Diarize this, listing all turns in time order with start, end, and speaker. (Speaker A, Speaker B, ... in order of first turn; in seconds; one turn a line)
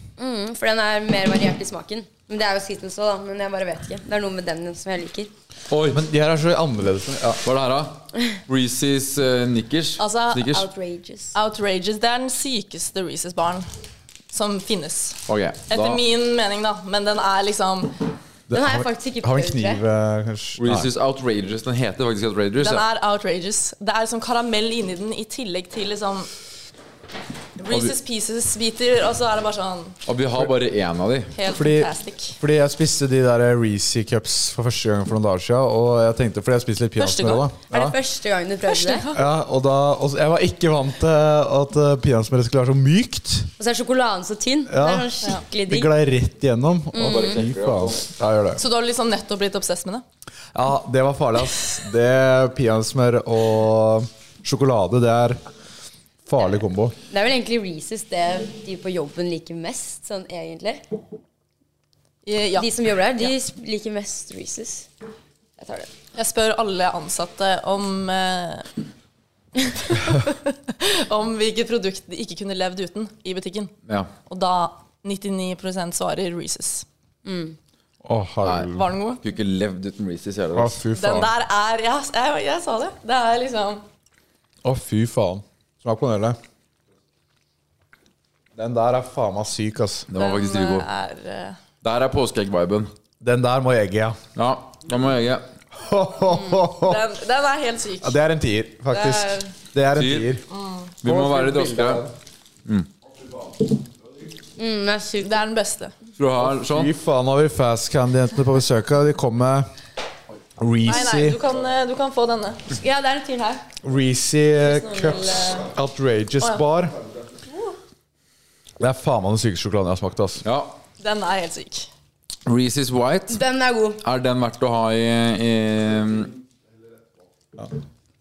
Speaker A: 0.2-5.3
Speaker B: 5.7-6.0
Speaker C: 5.9-7.4
Speaker B: 7.4-10.7
Speaker D: 10.0-10.6
Speaker A: 10.5-11.4
Speaker D: 11.3-13.7
Speaker D: 14.3-18.0
Speaker B: 15.3-16.0
Speaker C: 18.5-20.9
Speaker A: 18.5-19.8
Speaker B: 20.6-22.8
Speaker D: 22.6-26.3
Speaker D: 27.6-30.0
Speaker B: 30.1-31.3
Speaker D: 31.3-32.4
Speaker C: 31.5-38.0
Speaker D: 37.0-37.5
Speaker A: 37.7-39.1
Speaker D: 38.7-39.2
Speaker C: 39.1-43.5
Speaker A: 43.6-45.9
Speaker C: 44.7-45.1
Speaker C: 45.7-48.6
Speaker A: 46.9-47.4
Speaker B: 47.0-48.1
Speaker D: 48.6-50.0
Speaker C: 50.5-55.4
Speaker C: 56.3-57.0
Speaker A: 57.1-60.8
Speaker D: 62.2-63.4
Speaker A: 62.6-64.9
Speaker A: 65.6-65.9
Speaker D: 66.2-68.7
Speaker D: 69.7-73.7
Speaker D: 74.3-76.9
Speaker A: 77.3-77.6
Speaker C: 78.0-78.9
Speaker D: 78.7-79.2
Speaker B: 79.2-80.8
Speaker C: 80.5-81.3
Speaker D: 80.9-83.8
Speaker C: 84.6-86.4
Speaker C: 88.6-90.1
Speaker B: 90.1-90.9
Speaker D: 90.2-91.6
Speaker B: 91.8-92.9
Speaker C: 93.2-94.2
Speaker B: 94.4-95.5
Speaker C: 95.7-97.0
Speaker D: 96.8-98.2
Speaker C: 98.0-100.5
Speaker D: 98.9-99.5
Speaker B: 100.0-100.3
Speaker D: 100.5-100.9
Speaker B: 101.0-102.0
Speaker C: 101.0-102.1
Speaker A: 104.6-105.4
Speaker D: 105.2-105.9
Speaker B: 106.2-106.9
Speaker C: 106.5-109.7
Speaker C: 110.6-111.4
Speaker D: 110.9-112.7
Speaker A: 112.8-113.6
Speaker C: 113.8-117.0
Speaker D: 114.6-115.7
Speaker C: 118.8-120.4
Speaker B: 120.4-120.8
Speaker D: 121.0-121.9
Speaker B: 122.5-123.4
Speaker A: 123.3-124.0
Speaker B: 124.0-126.3